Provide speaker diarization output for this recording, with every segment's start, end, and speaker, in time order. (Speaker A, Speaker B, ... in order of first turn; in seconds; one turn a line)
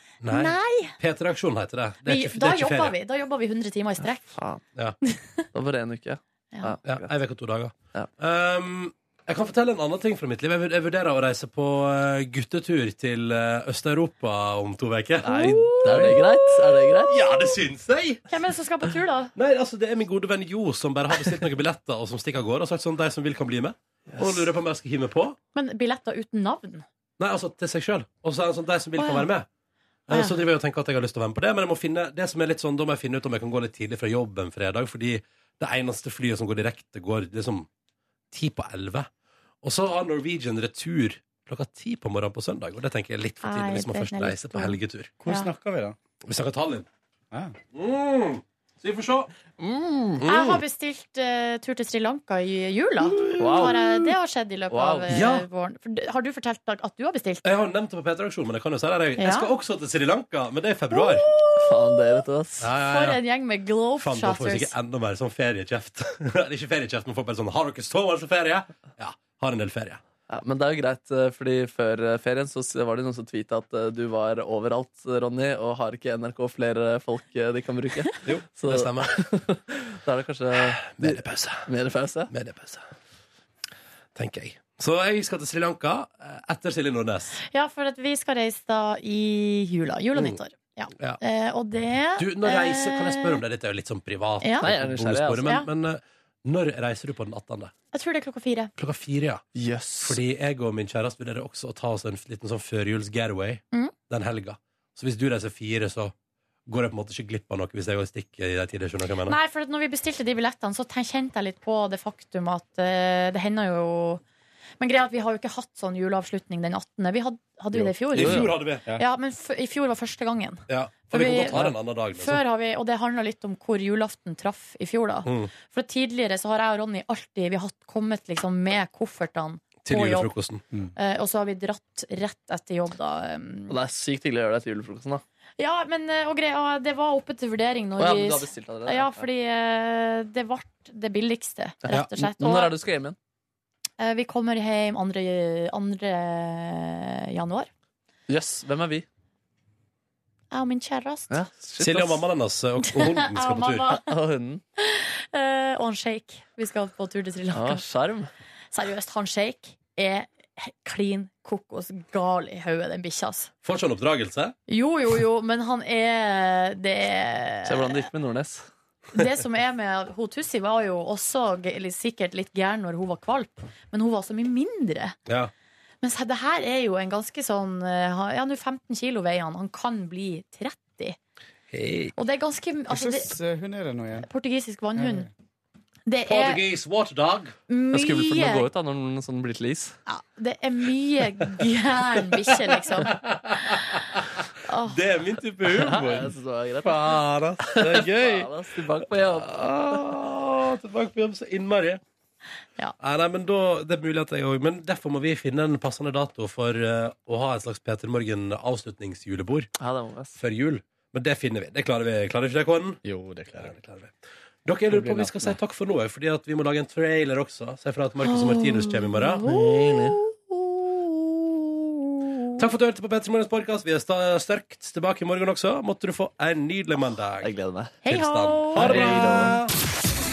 Speaker A: 0.2-2.9
Speaker B: 0.3-1.0
Speaker B: 2.1-4.4
Speaker C: 4.3-4.6
Speaker C: 5.5-7.1
Speaker A: 6.9-16.2
Speaker C: 15.2-17.2
Speaker B: 15.3-16.8
Speaker A: 17.1-18.3
Speaker B: 18.3-19.3
Speaker A: 19.4-25.4
Speaker B: 25.6-26.9
Speaker A: 27.2-29.5
Speaker B: 29.0-29.3
Speaker A: 30.1-37.7
Speaker B: 30.1-30.4
Speaker A: 38.3-39.1
Speaker A: 39.6-45.1
Speaker B: 43.4-45.5
Speaker D: 45.2-46.0
Speaker A: 46.3-46.9
Speaker A: 47.7-49.3
Speaker C: 49.6-50.2
Speaker A: 50.2-50.6
Speaker B: 50.3-57.4
Speaker A: 53.1-53.9
Speaker C: 53.4-53.8
Speaker C: 54.7-55.1
Speaker A: 55.1-55.5
Speaker A: 57.4-61.2
Speaker B: 59.2-59.5
Speaker C: 61.6-62.7
Speaker A: 62.6-63.2
Speaker B: 62.8-64.7
Speaker A: 64.0-70.0
Speaker C: 70.3-82.3
Speaker A: 78.2-79.2
Speaker A: 80.6-81.7
Speaker A: 82.3-82.8
Speaker A: 84.2-87.4
Speaker B: 87.4-93.4
Speaker A: 92.2-97.7
Speaker B: 94.4-94.7
Speaker C: 94.6-95.5
Speaker B: 97.9-98.7
Speaker A: 98.8-99.5
Speaker C: 99.5-100.2
Speaker A: 100.0-106.1
Speaker A: 106.7-109.4
Speaker B: 109.3-114.2
Speaker B: 114.8-121.6
Speaker D: 117.7-119.0
Speaker A: 118.1-118.8
Speaker A: 120.7-122.4
Speaker B: 122.2-130.3
Speaker A: 125.2-125.5
Speaker A: 129.8-130.6
Speaker B: 131.0-133.8
Speaker C: 133.7-135.2
Speaker B: 135.6-142.7
Speaker C: 138.0-139.3
Speaker C: 141.9-143.2
Speaker B: 144.0-147.7
Speaker C: 148.3-149.1
Speaker B: 150.5-151.4
Speaker C: 151.3-152.2
Speaker A: 151.8-153.9
Speaker B: 152.8-154.1
Speaker C: 153.9-154.6
Speaker B: 154.8-157.8
Speaker C: 157.5-158.3
Speaker B: 158.7-163.5
Speaker A: 163.6-164.6
Speaker B: 164.7-168.1
Speaker C: 167.7-168.7
Speaker B: 169.1-175.2
Speaker A: 175.3-175.5
Speaker B: 176.0-181.2
Speaker A: 181.7-182.1
Speaker B: 182.2-183.3
Speaker D: 182.9-184.3
Speaker B: 184.2-185.3
Speaker D: 185.0-185.3
Speaker B: 186.1-186.6
Speaker A: 186.3-187.5
Speaker B: 187.7-188.7
Speaker C: 187.9-190.0
Speaker B: 190.1-193.2
Speaker A: 193.1-196.3
Speaker B: 194.6-195.0
Speaker C: 195.7-200.1
Speaker A: 196.8-198.5
Speaker A: 199.3-202.0
Speaker A: 203.0-209.7
Speaker C: 209.8-210.4
Speaker A: 210.4-213.0
Speaker D: 213.0-213.8
Speaker A: 213.6-220.2
Speaker D: 214.9-215.6
Speaker B: 218.2-221.5
Speaker B: 222.3-222.6
Speaker A: 222.6-227.5
Speaker C: 227.4-228.0
Speaker B: 228.1-229.6
Speaker A: 228.1-229.7
Speaker C: 228.8-229.6